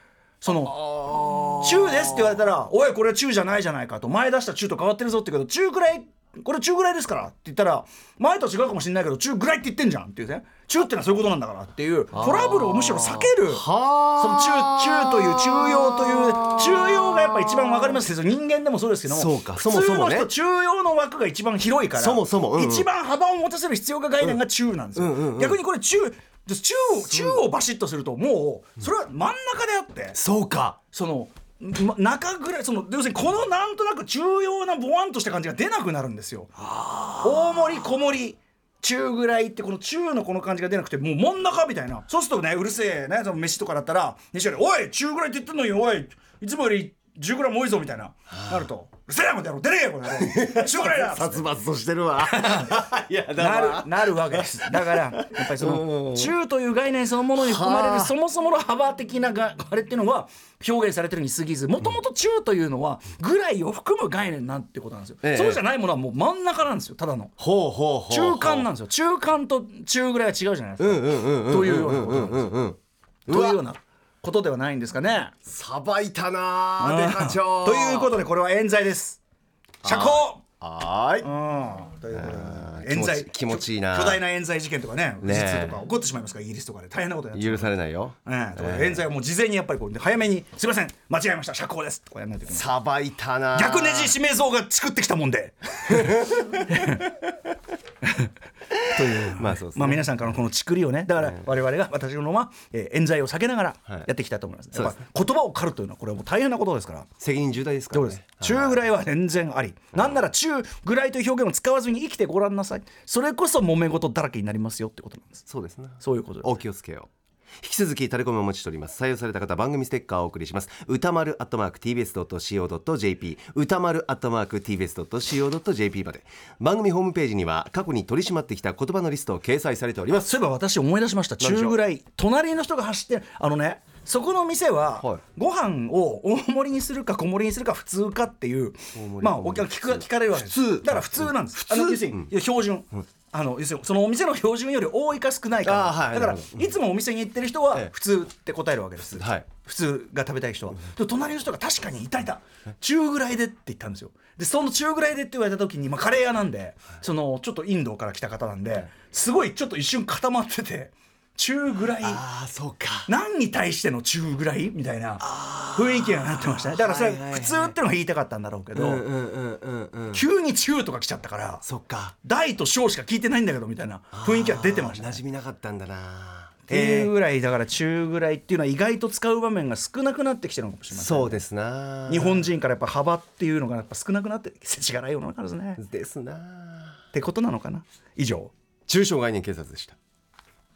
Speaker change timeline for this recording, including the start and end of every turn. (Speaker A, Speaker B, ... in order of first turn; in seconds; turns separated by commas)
Speaker A: 0.4-0.8, Speaker B: 0.5-1.9, Speaker A: 1.6-13.7, Speaker B: 12.1-15.5, Speaker A: 14.2-30.2, Speaker B: 19.1-20.3, Speaker B: 21.9-22.9, Speaker B: 25.0-25.6, Speaker B: 27.1-27.4, Speaker B: 30.1-30.8, Speaker A: 30.9-36.6, Speaker B: 36.8-37.4, Speaker A: 37.2-51.5, Speaker B: 50.1-56.3, Speaker A: 52.2-52.8, Speaker A: 53.4-67.3, Speaker B: 57.4-58.1, Speaker B: 65.2-65.6, Speaker B: 67.4-68.7, Speaker A: 68.1-72.6, Speaker B: 70.8-73.6, Speaker A: 73.3-75.3, Speaker B: 75.5-78.2, Speaker A: 76.8-79.2, Speaker A: 79.8-80.4, Speaker B: 79.8-81.3, Speaker A: 81.2-87.7, Speaker B: 82.1-84.2, Speaker B: 85.2-85.8, Speaker B: 87.3-89.0, Speaker A: 88.2-92.7, Speaker B: 92.5-94.2, Speaker A: 93.5-97.2, Speaker B: 96.0-96.5, Speaker A: 98.0-98.3, Speaker A: 98.8-107.1, Speaker B: 99.2-100.1, Speaker B: 107.2-108.8, Speaker A: 107.9-115.5, Speaker B: 115.5-130.3, Speaker A: 116.0-116.5, Speaker A: 130.2-162.2, Speaker B: 131.4-131.8, Speaker B: 138.9-142.3, Speaker B: 145.6-146.7, Speaker B: 149.2-149.5, Speaker B: 161.9-163.1, Speaker A: 163.1-169.0, Speaker B: 165.2-167.8, Speaker B: 168.7-170.3, Speaker A: 170.1-171.6, Speaker B: 171.6-172.2, Speaker A: 172.2-175.2, Speaker B: 174.1-177.1, Speaker A: 176.7-181.4, Speaker B: 180.9-182.5, Speaker A: 182.1-185.8, Speaker B: 185.8-187.0, Speaker A: 187.1-188.5, Speaker B: 188.9-190.0